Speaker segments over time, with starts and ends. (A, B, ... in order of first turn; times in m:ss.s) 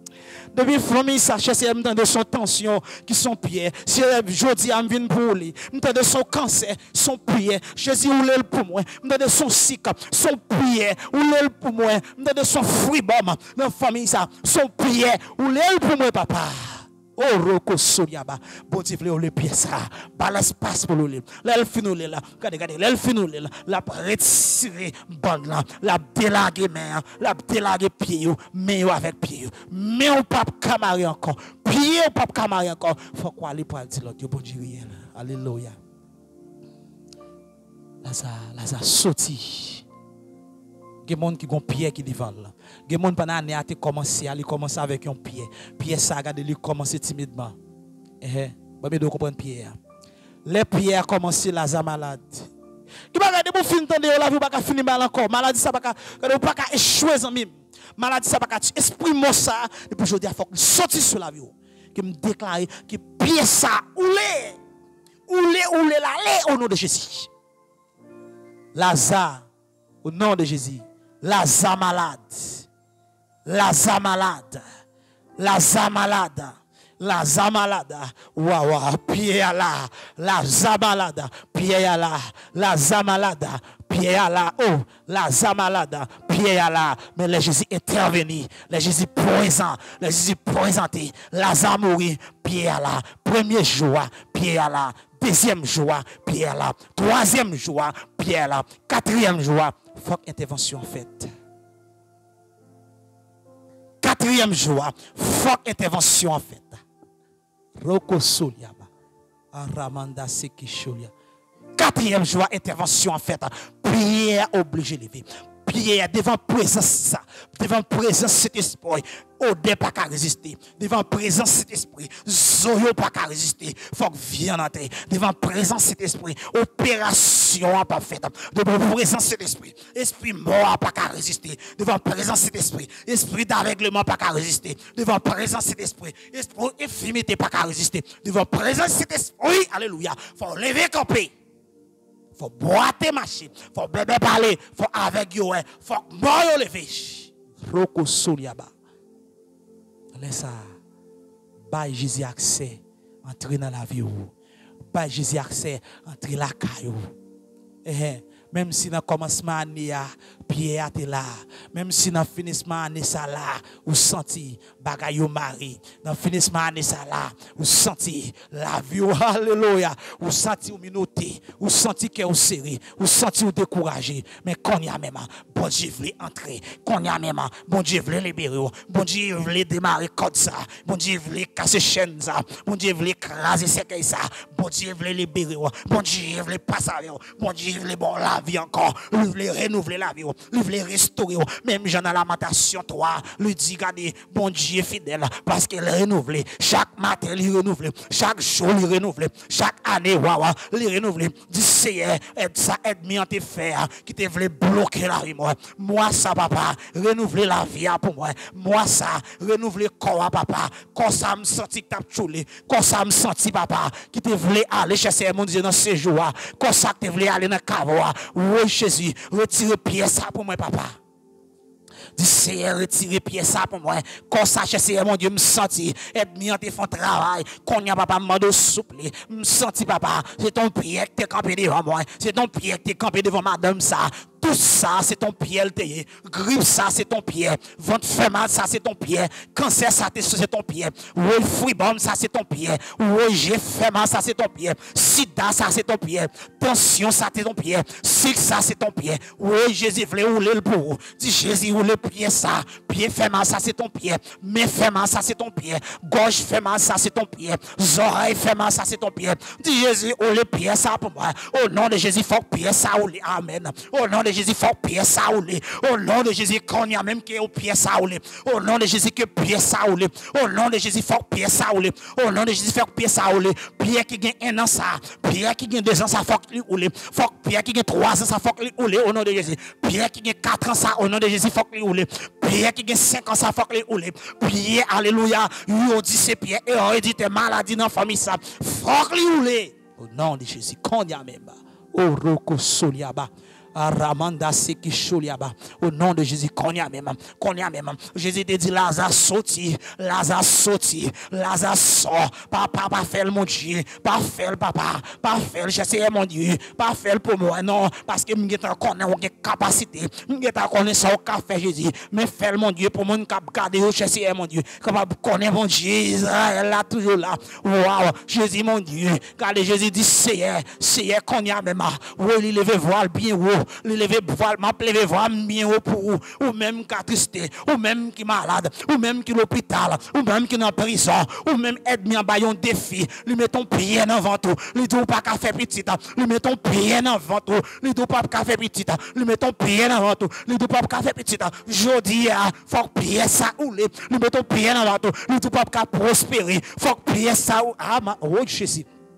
0:00.5-0:35.8 A
0:38.0-0:39.9 A
0:41.0-0:47.6 A
0:48.2-0:49.8 A
0:50.4-0:52.5 A
0:53.1-1:04.6 A
1:05.3-1:07.3 A
1:08.8-1:09.5 A
1:10.0-1:12.7 A
1:13.4-1:14.6 A
1:15.4-1:41.3 A
1:44.0-1:46.8 A
1:47.8-1:48.9 A
1:49.5-1:51.1 A
1:51.8-2:21.3 A
2:22.4-2:28.7 A
2:30.1-2:30.7 A
2:31.7-2:34.3 A
2:34.9-2:37.0 A
2:37.8-3:41.0 A
3:42.2-5:48.9 A